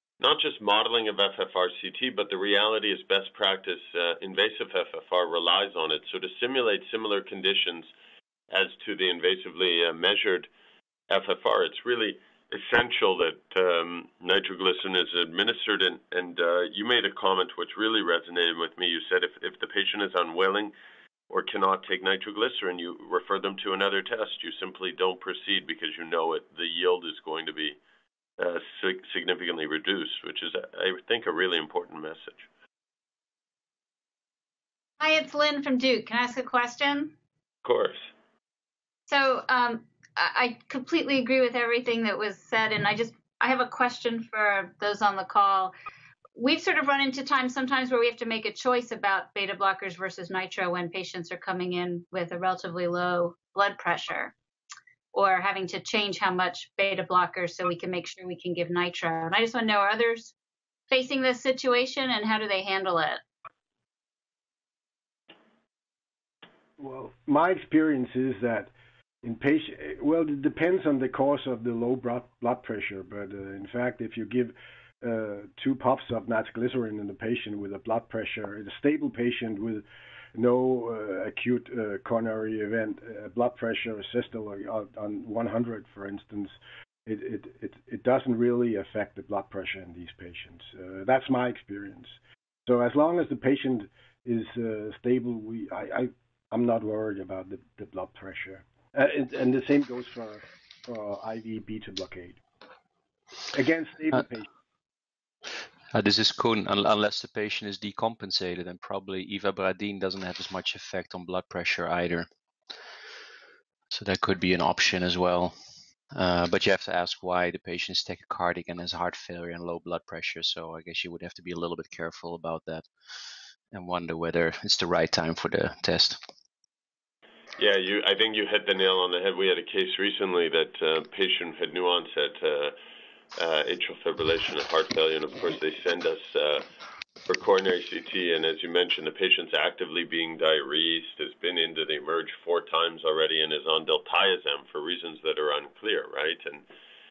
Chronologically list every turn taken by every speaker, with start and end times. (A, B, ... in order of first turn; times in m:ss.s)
0:00.2-0:07.9 A
0:08.5-0:10.5 A
0:11.1-0:20.7 A
0:21.3-0:27.8 A
0:28.4-0:32.5 A
0:35.0-0:37.1 B
0:37.6-0:38.1 A
0:39.1-0:45.7 B
0:46.4-0:54.3 B
0:55.1-1:00.3 B
1:00.9-1:03.2 B
1:06.8-1:08.7 C
1:09.2-1:42.4 C
1:43.5-1:44.5 C
1:45.9-1:52.3 D
1:53.9-1:55.6 D
1:56.2-2:02.9 D
2:03.7-2:06.2 D
2:07.6-2:12.7 A
2:13.4-2:16.6 A
2:17.3-2:26.6 A